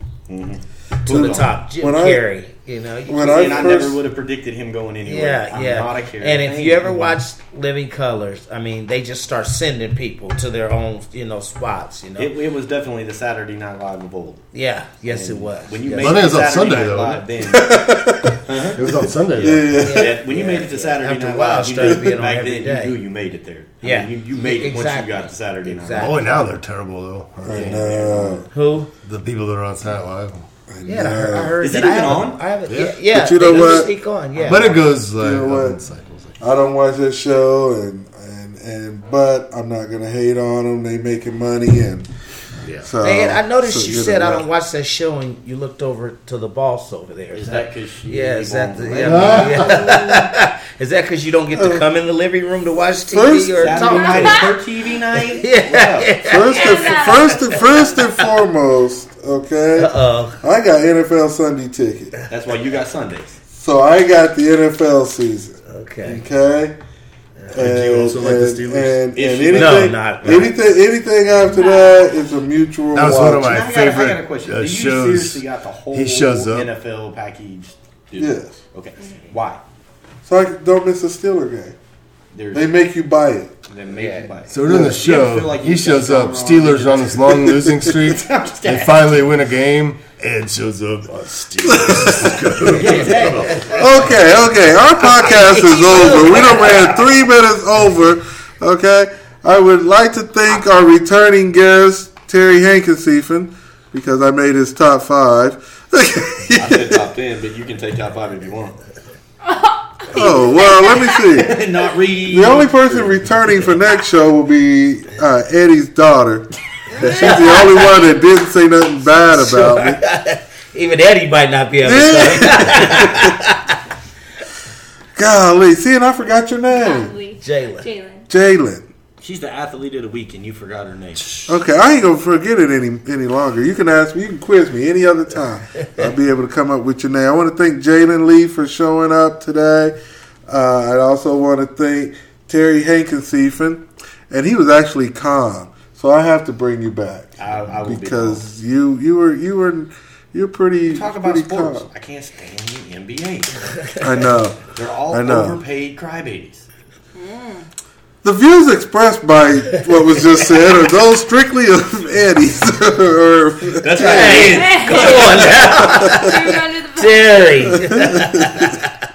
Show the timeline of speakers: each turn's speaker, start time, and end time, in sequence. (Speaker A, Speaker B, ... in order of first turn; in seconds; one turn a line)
Speaker A: 0.3-1.5
Speaker B: 1.1-3.8
Speaker C: 1.8-2.2
Speaker C: 3.1-4.0
Speaker A: 3.2-6.9
Speaker B: 5.0-12.3
Speaker A: 12.2-14.4
Speaker B: 14.5-16.2
Speaker A: 15.1-17.9
Speaker D: 16.0-17.2
Speaker C: 17.5-18.5
Speaker A: 18.4-18.8
Speaker D: 18.7-19.8
Speaker C: 19.4-20.2
Speaker B: 19.8-23.0
Speaker A: 19.8-26.2
Speaker B: 23.8-26.2
Speaker D: 26.0-30.5
Speaker C: 27.4-28.5
Speaker B: 28.5-28.9
Speaker C: 30.7-31.6
Speaker B: 30.8-34.8
Speaker A: 31.6-32.4
Speaker D: 32.7-33.0
Speaker C: 33.1-33.9
Speaker D: 34.4-36.3
Speaker C: 35.2-35.8
Speaker C: 36.4-42.1
Speaker D: 42.6-42.9
Speaker C: 42.8-44.5
Speaker B: 43.0-54.5
Speaker A: 47.3-50.0
Speaker D: 49.0-50.1
Speaker C: 51.5-51.8
Speaker C: 53.1-54.1
Speaker A: 53.6-56.1
Speaker E: 53.9-54.4
Speaker B: 55.3-57.8
Speaker C: 56.2-62.1
Speaker E: 56.5-57.4
Speaker B: 59.8-60.4
Speaker A: 62.3-63.4
Speaker C: 63.5-66.8
Speaker B: 65.7-66.2
Speaker C: 67.5-73.6
Speaker D: 67.5-69.0
Speaker A: 69.1-70.4
Speaker B: 69.5-70.5
Speaker E: 71.4-72.1
Speaker D: 72.9-76.7
Speaker A: 73.4-79.6
Speaker C: 78.2-78.6
Speaker C: 80.2-81.8
Speaker A: 82.3-82.7
Speaker C: 82.5-83.5
Speaker A: 83.7-89.3
Speaker B: 83.9-84.3
Speaker D: 84.5-93.6
Speaker C: 84.7-85.0
Speaker C: 87.5-88.0
Speaker C: 91.6-92.8
Speaker A: 92.6-93.9
Speaker B: 92.8-97.0
Speaker C: 93.7-107.0
Speaker A: 106.5-108.8
Speaker E: 109.4-111.4
Speaker C: 110.1-111.6
Speaker A: 111.3-113.3
Speaker C: 112.3-120.0
Speaker E: 116.9-118.2
Speaker B: 117.0-117.8
Speaker B: 119.3-123.8
Speaker C: 121.8-123.3
Speaker C: 125.1-127.1
Speaker E: 126.7-128.3
Speaker B: 127.4-127.9
Speaker C: 128.3-128.9
Speaker A: 129.2-131.4
Speaker C: 131.4-139.9
Speaker C: 140.5-151.8
Speaker A: 147.4-148.4
Speaker A: 150.9-153.8
Speaker C: 154.0-155.6
Speaker A: 154.7-156.7
Speaker E: 157.1-157.7
Speaker C: 158.2-164.6
Speaker A: 163.8-165.6
Speaker B: 164.0-168.9
Speaker E: 164.4-167.9
Speaker C: 165.7-166.2
Speaker C: 167.7-168.7